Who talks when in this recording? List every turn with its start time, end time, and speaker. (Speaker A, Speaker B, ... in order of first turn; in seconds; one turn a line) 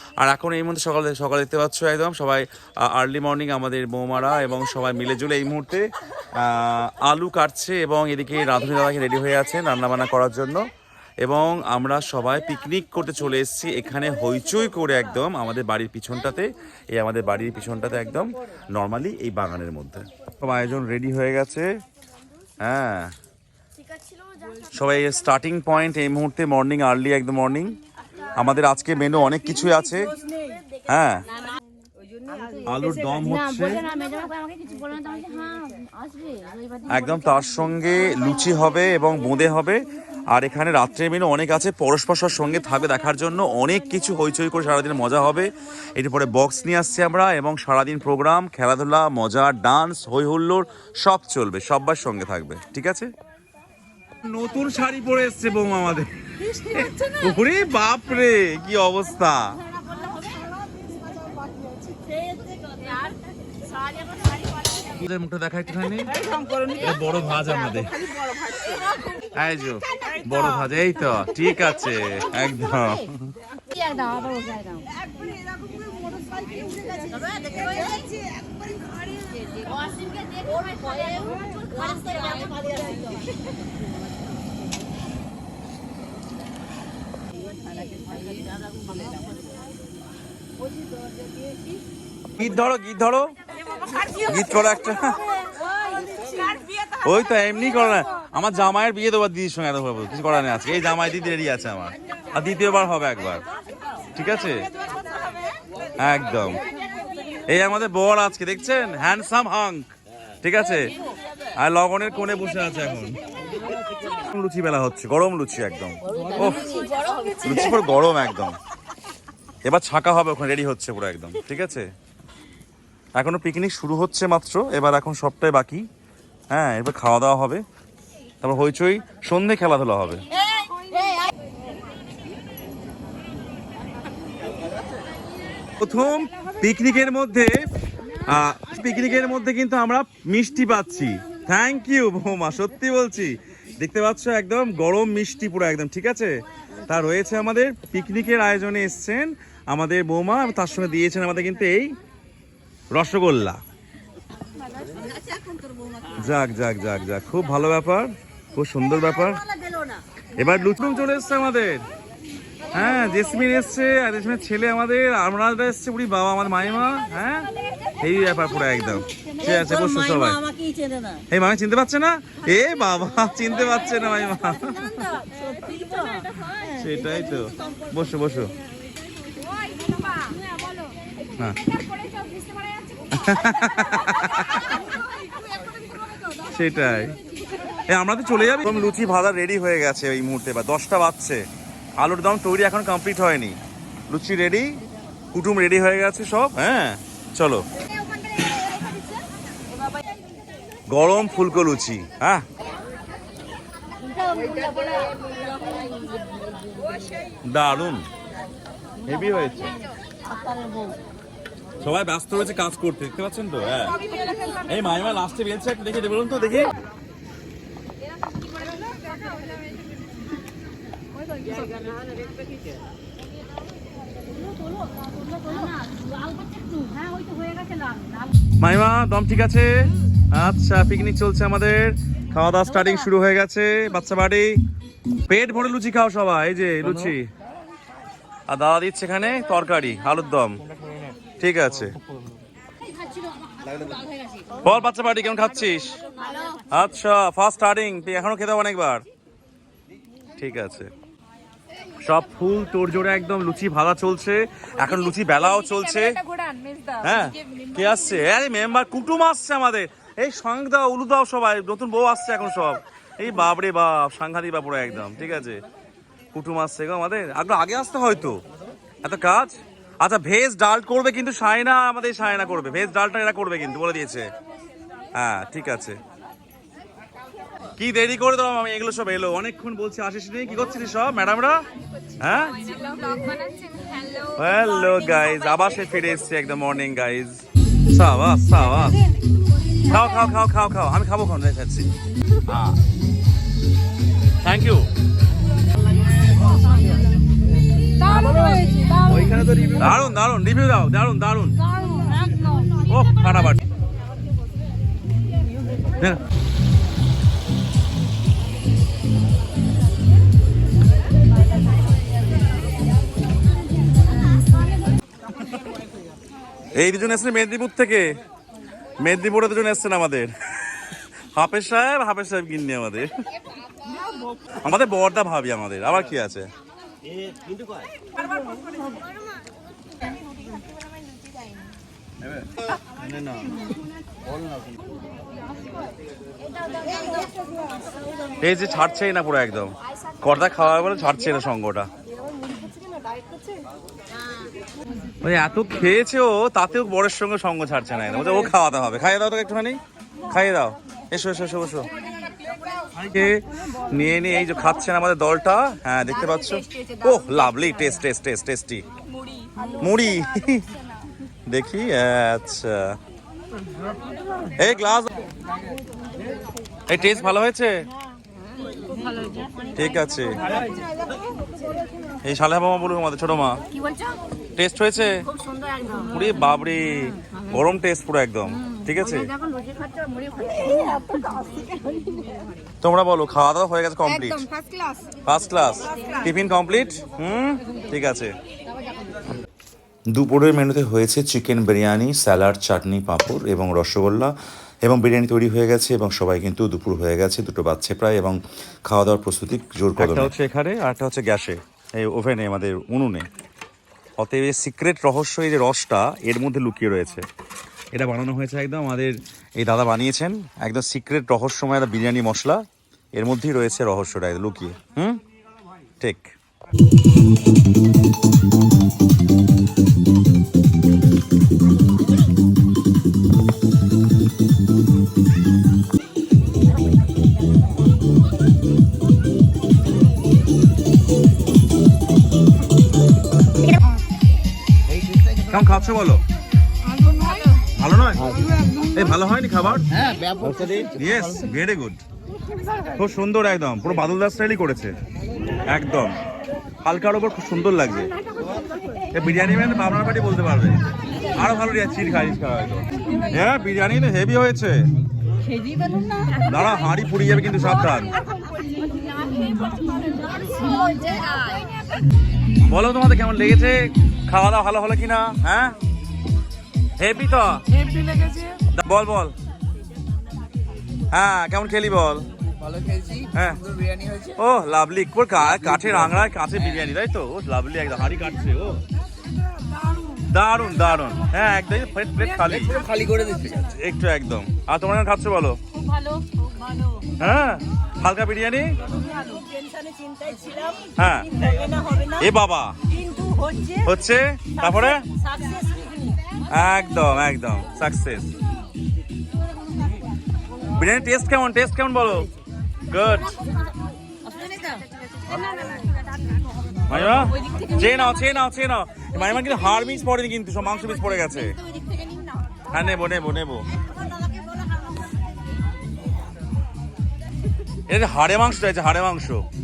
Speaker A: 0.2-10.7
Speaker A: 11.2-21.7
Speaker A: 22.6-23.1
Speaker A: 24.7-27.8
Speaker A: 28.4-30.1
Speaker B: 30.2-30.6
Speaker A: 30.9-31.2
Speaker B: 32.2-36.8
Speaker A: 32.6-33.8
Speaker A: 36.9-53.1
Speaker A: 54.2-59.6
Speaker B: 60.0-60.4
Speaker B: 62.6-62.9
Speaker A: 65.0-66.1
Speaker B: 66.2-66.8
Speaker A: 66.8-67.9
Speaker B: 67.8-68.9
Speaker A: 69.3-73.3
Speaker B: 73.7-74.9
Speaker B: 76.2-78.5
Speaker B: 79.4-83.3
Speaker A: 92.4-93.3
Speaker B: 93.7-94.7
Speaker A: 94.2-95.2
Speaker B: 95.5-96.9
Speaker A: 97.0-103.4
Speaker A: 104.2-104.7
Speaker A: 106.0-106.6
Speaker A: 107.5-109.9
Speaker A: 110.4-110.9
Speaker A: 111.6-113.2
Speaker A: 114.1-116.8
Speaker B: 116.1-117.4
Speaker A: 117.4-118.6
Speaker A: 119.6-121.9
Speaker A: 123.1-125.8
Speaker A: 126.5-127.6
Speaker A: 128.4-130.2
Speaker A: 135.8-137.6
Speaker A: 138.3-146.4
Speaker A: 146.9-151.9
Speaker A: 152.9-153.6
Speaker A: 156.2-159.4
Speaker A: 160.4-161.8
Speaker A: 162.7-167.5
Speaker A: 168.0-170.4
Speaker C: 170.6-170.8
Speaker A: 171.3-175.0
Speaker B: 175.3-176.6
Speaker A: 176.8-178.5
Speaker B: 179.4-180.9
Speaker B: 181.7-183.1
Speaker A: 183.1-184.6
Speaker A: 186.5-187.1
Speaker A: 187.9-191.4
Speaker A: 192.0-193.6
Speaker A: 194.1-194.7
Speaker A: 195.3-197.6
Speaker B: 198.4-199.0
Speaker A: 200.9-202.4
Speaker B: 204.1-207.2
Speaker A: 207.4-208.0
Speaker A: 209.1-209.7
Speaker B: 210.4-210.8
Speaker A: 211.8-214.0
Speaker B: 214.0-214.6
Speaker A: 214.6-216.7
Speaker B: 218.7-219.7
Speaker B: 224.9-228.2
Speaker A: 228.6-234.6
Speaker A: 235.3-237.3
Speaker A: 238.5-240.6
Speaker A: 241.4-241.9
Speaker A: 244.6-246.0
Speaker B: 246.2-246.6
Speaker A: 246.7-249.0
Speaker A: 250.4-250.9
Speaker A: 252.0-256.2
Speaker B: 255.6-257.7
Speaker A: 257.0-265.6
Speaker A: 266.3-268.4
Speaker A: 269.0-274.3
Speaker A: 275.1-276.0
Speaker A: 277.8-281.6
Speaker A: 282.2-282.6
Speaker B: 282.5-285.4
Speaker A: 284.4-289.0
Speaker A: 289.8-291.9
Speaker A: 292.5-292.8
Speaker A: 294.4-294.9
Speaker B: 296.4-297.0
Speaker B: 298.0-299.4
Speaker C: 299.1-299.7
Speaker A: 299.7-301.6
Speaker B: 301.8-302.7
Speaker A: 302.9-303.6
Speaker A: 316.7-318.1
Speaker A: 319.0-320.3
Speaker A: 321.3-323.1
Speaker A: 324.6-326.5
Speaker C: 327.3-327.8
Speaker A: 333.1-333.4
Speaker B: 336.7-337.4
Speaker A: 338.4-341.9
Speaker A: 345.2-349.8
Speaker A: 350.3-351.9
Speaker A: 353.0-358.8
Speaker B: 356.6-356.9
Speaker B: 359.4-359.8
Speaker A: 359.8-360.7
Speaker A: 361.5-363.0
Speaker A: 364.6-365.1
Speaker A: 366.9-367.9
Speaker B: 368.9-369.5
Speaker A: 369.8-370.4
Speaker A: 372.2-373.6
Speaker B: 373.7-374.2
Speaker A: 374.6-375.2
Speaker B: 375.3-376.1
Speaker A: 376.1-379.3
Speaker B: 379.0-382.4
Speaker A: 382.8-384.4
Speaker B: 384.1-385.1
Speaker A: 385.2-388.3
Speaker B: 385.9-386.2
Speaker A: 390.1-403.3
Speaker A: 404.2-407.2
Speaker A: 407.9-415.2
Speaker A: 416.0-416.3
Speaker C: 434.9-435.6
Speaker A: 435.5-436.2
Speaker B: 437.0-437.6
Speaker A: 437.8-438.2
Speaker C: 438.2-438.6
Speaker A: 438.9-439.8
Speaker C: 439.9-441.4
Speaker A: 441.0-442.0
Speaker A: 443.0-444.9
Speaker A: 445.7-446.2
Speaker A: 446.8-448.1
Speaker A: 449.1-450.8
Speaker A: 451.4-454.8
Speaker B: 455.5-456.5
Speaker A: 456.4-458.1
Speaker B: 458.3-461.7
Speaker A: 462.7-465.7
Speaker A: 467.0-467.6
Speaker B: 468.1-468.4
Speaker A: 468.7-469.3
Speaker A: 471.1-472.2
Speaker C: 472.4-474.4
Speaker A: 473.3-473.6
Speaker A: 474.4-478.8
Speaker C: 475.4-476.7
Speaker A: 480.3-482.8
Speaker C: 482.4-483.7
Speaker A: 483.7-485.6
Speaker B: 485.7-487.0
Speaker A: 487.2-488.7
Speaker B: 488.9-492.2
Speaker A: 491.0-491.3
Speaker A: 492.2-492.8
Speaker B: 492.9-493.8
Speaker A: 493.8-495.0
Speaker B: 494.6-496.0
Speaker A: 496.5-498.3
Speaker A: 500.7-502.3
Speaker A: 502.9-503.3
Speaker B: 504.2-506.3
Speaker A: 506.9-511.6
Speaker B: 506.9-508.0
Speaker B: 511.9-512.2
Speaker A: 512.7-513.6
Speaker A: 517.9-519.4